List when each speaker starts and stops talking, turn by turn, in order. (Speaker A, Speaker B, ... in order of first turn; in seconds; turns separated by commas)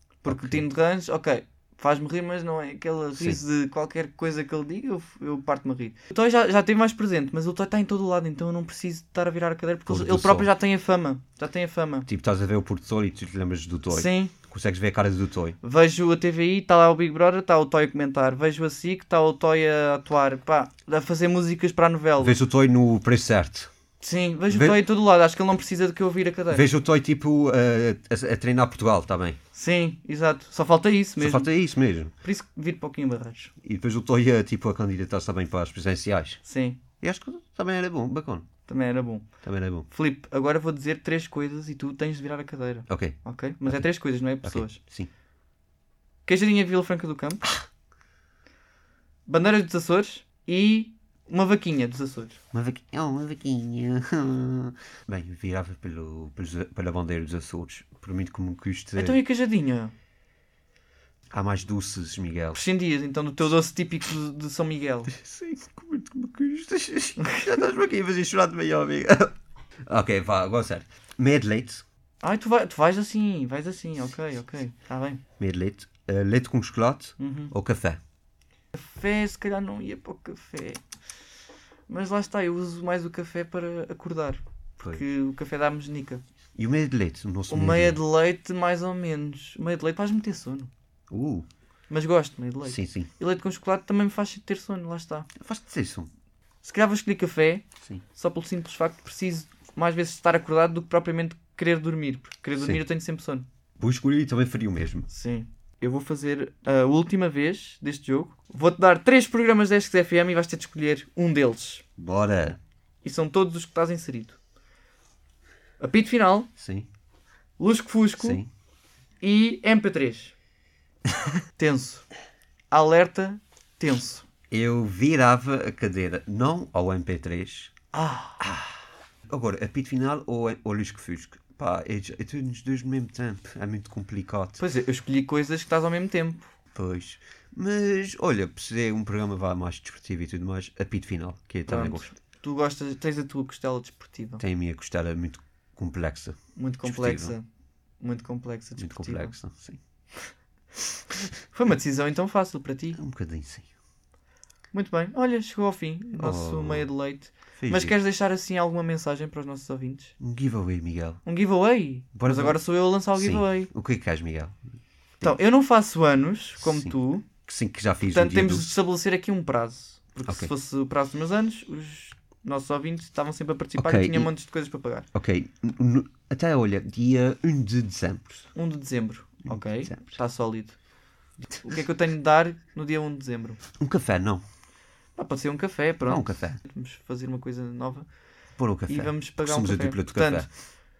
Speaker A: 0.2-12.1, Speaker B: 0.2-0.6, Speaker B: 9.9-10.5, Speaker B: 12.1-15.6, Speaker A: 13.9-14.3, Speaker A: 15.6-22.4, Speaker B: 22.2-23.7, Speaker A: 24.0-26.6, Speaker B: 24.5-24.8, Speaker B: 26.5-29.4, Speaker A: 29.5-31.5, Speaker B: 31.2-32.1, Speaker A: 32.2-33.5, Speaker B: 33.6-36.4, Speaker A: 36.5-36.8, Speaker B: 37.0-38.5, Speaker A: 38.7-39.3, Speaker B: 39.4-39.9, Speaker A: 39.9-44.8, Speaker B: 42.9-45.1, Speaker A: 46.2-47.5, Speaker A: 49.3-52.4, Speaker B: 52.5-59.2, Speaker A: 59.0-59.9, Speaker B: 61.3-62.6, Speaker A: 62.5-65.1, Speaker B: 65.1-69.3, Speaker B: 69.8-71.8, Speaker A: 72.2-75.2, Speaker B: 75.4-78.0, Speaker A: 77.2-77.5, Speaker A: 78.7-80.8, Speaker A: 81.9-86.2, Speaker B: 84.8-85.0, Speaker B: 86.5-88.0, Speaker A: 87.5-90.7, Speaker B: 91.1-91.5, Speaker A: 91.9-95.3, Speaker B: 92.6-93.1, Speaker B: 95.4-96.1, Speaker A: 96.6-97.6, Speaker A: 98.2-103.5, Speaker B: 103.8-105.1, Speaker A: 105.1-111.8, Speaker B: 112.0-112.6, Speaker A: 113.0-114.4, Speaker A: 115.8-116.5, Speaker B: 116.6-116.9, Speaker A: 117.6-118.4, Speaker B: 118.2-118.5, Speaker A: 119.2-120.3, Speaker A: 121.6-122.0, Speaker A: 122.7-124.2, Speaker B: 124.5-127.7, Speaker A: 127.9-128.4, Speaker B: 128.4-134.6, Speaker A: 134.6-136.5, Speaker B: 136.7-142.1, Speaker A: 141.7-144.4, Speaker B: 144.4-147.3, Speaker A: 146.6-147.4, Speaker A: 148.0-149.3, Speaker B: 148.8-149.8, Speaker A: 151.5-153.0, Speaker B: 152.9-153.7, Speaker A: 154.7-160.1, Speaker B: 156.1-156.9, Speaker B: 157.6-158.0, Speaker B: 160.2-161.2, Speaker A: 161.2-163.7, Speaker B: 162.1-164.6, Speaker A: 165.2-167.2, Speaker B: 166.6-168.8, Speaker A: 168.1-175.1, Speaker B: 170.3-170.5, Speaker B: 173.8-174.3, Speaker B: 175.1-178.5, Speaker A: 178.5-180.8, Speaker B: 179.4-180.2, Speaker A: 181.6-183.6, Speaker B: 183.8-184.4, Speaker A: 185.2-188.1, Speaker B: 186.0-186.6, Speaker B: 188.6-190.5, Speaker A: 188.9-190.5